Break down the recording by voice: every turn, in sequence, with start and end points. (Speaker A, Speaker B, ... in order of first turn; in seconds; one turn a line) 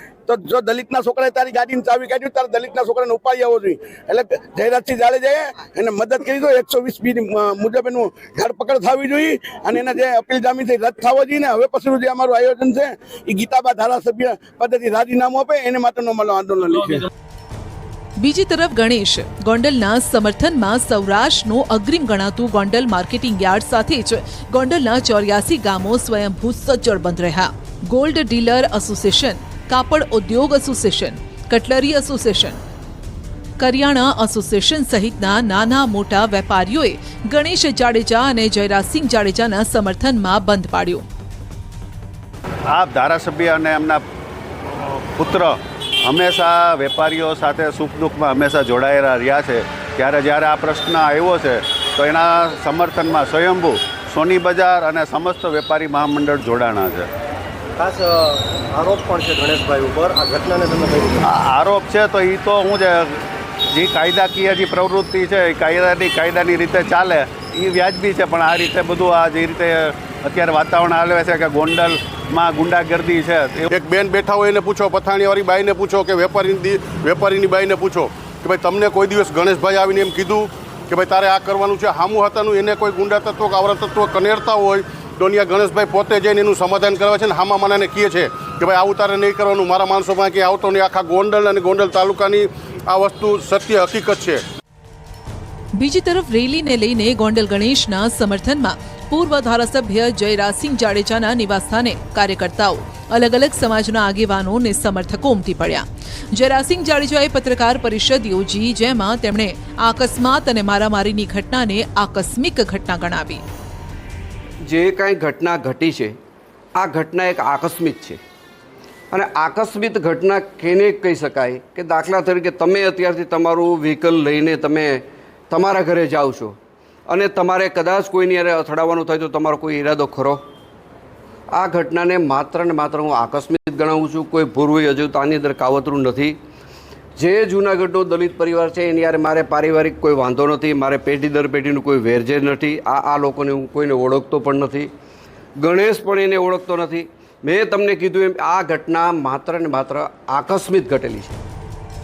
Speaker A: 0.3-17.1
Speaker B: 18.2-32.6
Speaker B: 33.6-41.0
Speaker C: 42.7-44.0
Speaker C: 45.2-57.1
Speaker D: 57.8-61.2
Speaker C: 61.2-63.2
Speaker C: 63.7-73.7
Speaker E: 73.7-94.4
Speaker B: 95.8-113.4
Speaker F: 114.6-116.2
Speaker F: 116.8-118.2
Speaker F: 119.1-130.4
Speaker F: 131.5-136.4
Speaker F: 137.2-144.9
Speaker F: 145.6-151.4